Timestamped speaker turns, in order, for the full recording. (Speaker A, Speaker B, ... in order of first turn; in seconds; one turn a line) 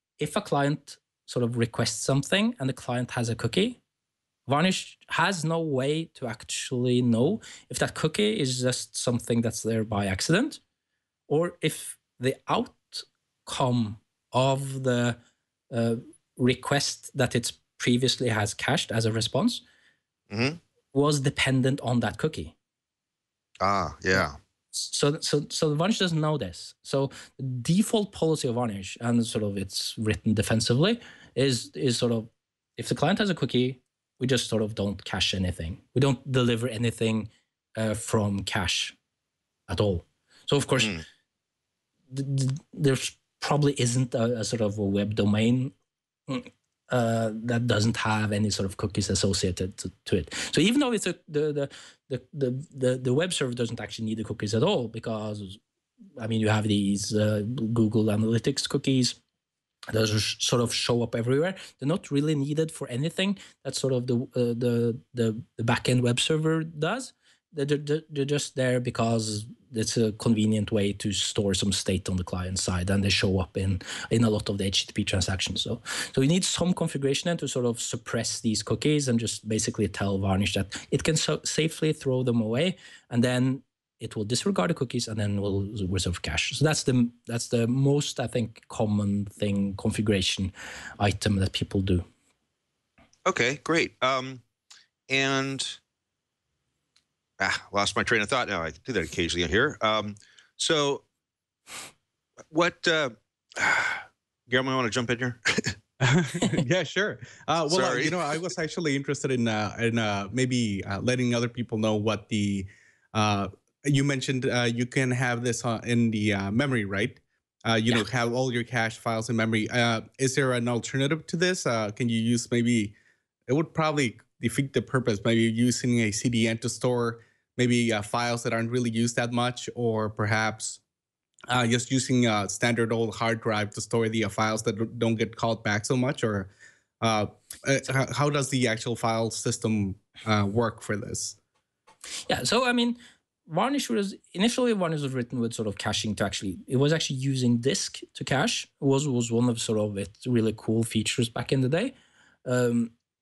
Speaker A: 0.2-3.8
Speaker A: 4.5-10.6
Speaker A: 11.3-15.2
Speaker A: 15.7-19.6
Speaker B: 20.3-20.6
Speaker A: 20.9-22.5
Speaker B: 23.6-24.4
Speaker A: 24.7-39.0
Speaker A: 39.7-41.0
Speaker A: 42.1-45.7
Speaker A: 46.3-55.6
Speaker A: 56.2-59.2
Speaker A: 59.9-92.0
Speaker B: 93.2-94.4
Speaker B: 95.1-95.8
Speaker B: 97.4-101.0
Speaker B: 102.5-105.8
Speaker C: 106.0-122.9
Speaker B: 107.7-108.2
Speaker C: 123.5-130.8
Speaker C: 131.5-136.5
Speaker C: 137.0-141.4
Speaker A: 142.3-151.9
Speaker A: 152.4-152.9